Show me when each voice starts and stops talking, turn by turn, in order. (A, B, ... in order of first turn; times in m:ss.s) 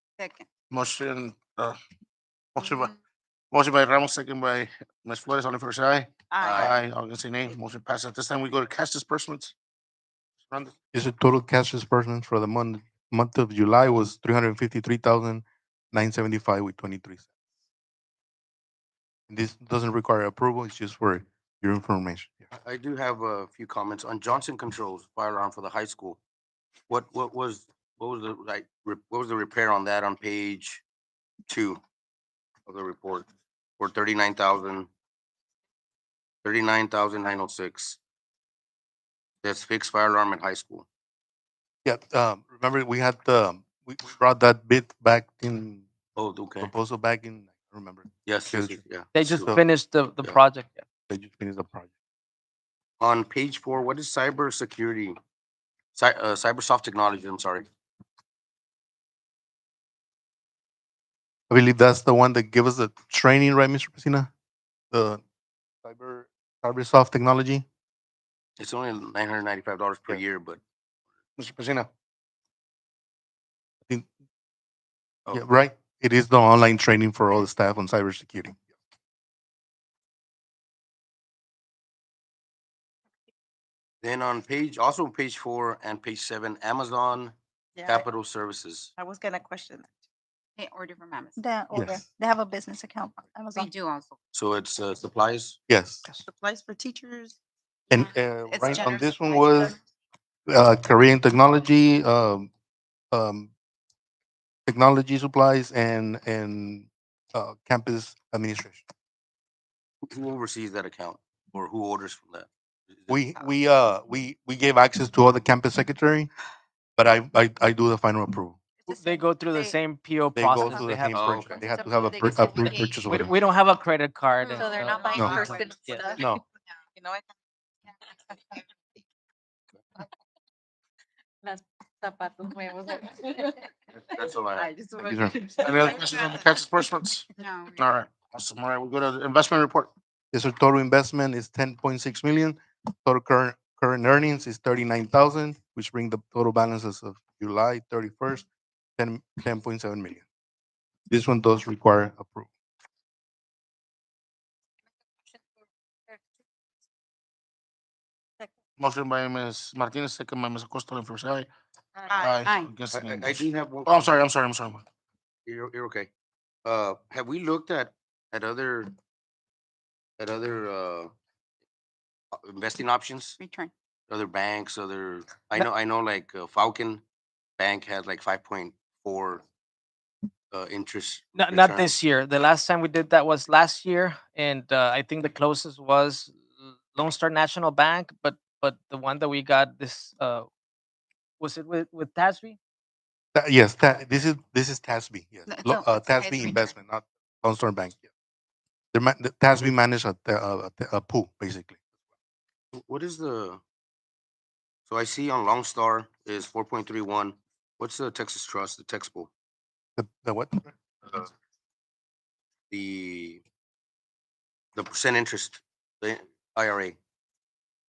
0:00.2-0:00.4 A
0:00.7-0:01.8 B
0:02.5-0:02.9 B
0:03.5-0:09.5 B
0:06.3-0:06.7 A
0:06.4-0:06.8 C
0:10.5-0:10.7 B
0:10.9-0:17.2 D
0:19.3-0:22.4 D
0:22.5-0:26.2 C
0:26.9-0:30.8 C
0:31.5-0:31.8 C
0:32.7-0:33.3 C
0:33.8-0:34.9 C
0:36.4-0:38.0 C
0:39.4-0:40.8 C
0:41.8-0:45.8 D
0:46.2-0:46.7 C
0:46.6-0:48.8 D
0:48.2-0:49.6 C
0:49.1-0:50.8 E
0:51.1-0:51.9 D
0:53.0-0:55.2 C
0:55.9-0:57.6 C
1:01.5-1:04.3 D
1:04.9-1:05.2 D
1:05.8-1:07.6 D
1:08.6-1:10.6 C
1:11.4-1:11.9 B
1:15.3-1:18.6 D
1:24.0-1:28.9 C
1:27.8-1:28.0 A
1:29.0-1:29.9 A
1:30.6-1:31.4 A
1:31.4-1:33.7 F
1:31.7-1:32.0 D
1:33.5-1:34.2 A
1:34.3-1:35.6 C
1:35.7-1:36.0 D
1:36.2-1:37.3 A
1:37.9-1:39.8 D
1:37.9-1:39.7 A
1:40.5-1:42.5 D
1:43.1-1:43.5 D
1:44.6-1:48.8 D
1:50.0-1:53.2 C
1:53.1-1:56.3 D
1:57.0-1:58.6 D
1:58.9-2:01.3 E
1:58.9-1:59.7 A
2:00.3-2:03.3 D
2:01.1-2:01.6 C
2:01.9-2:02.9 A
2:03.0-2:05.2 E
2:04.4-2:06.2 A
2:05.1-2:05.5 D
2:05.7-2:06.1 E
2:06.2-2:06.4 D
2:06.8-2:07.2 A
2:08.3-2:08.6 A
2:11.4-2:13.5 A
2:14.0-2:14.7 C
2:14.6-2:16.2 A
2:15.0-2:15.4 D
2:15.6-2:19.9 B
2:17.4-2:17.8 A
2:20.3-2:28.4 D
2:29.0-2:30.2 D
2:31.1-2:32.5 D
2:38.8-2:41.5 B
2:42.0-2:42.7 A
2:42.1-2:44.8 B
2:42.9-2:44.0 C
2:45.4-2:46.1 C
2:46.6-2:48.9 C
2:50.2-2:51.1 C
2:52.3-2:53.4 C
2:53.4-2:53.7 A
2:54.1-2:57.0 C
2:57.6-2:59.4 C
3:00.5-3:01.9 C
3:01.4-3:10.5 E
3:11.4-3:12.6 E
3:13.3-3:18.0 D
3:15.5-3:16.7 A
3:18.9-3:21.8 D
3:22.7-3:23.6 C
3:24.9-3:29.3 C
3:30.0-3:30.7 D
3:32.7-3:33.4 C
3:34.7-3:37.0 C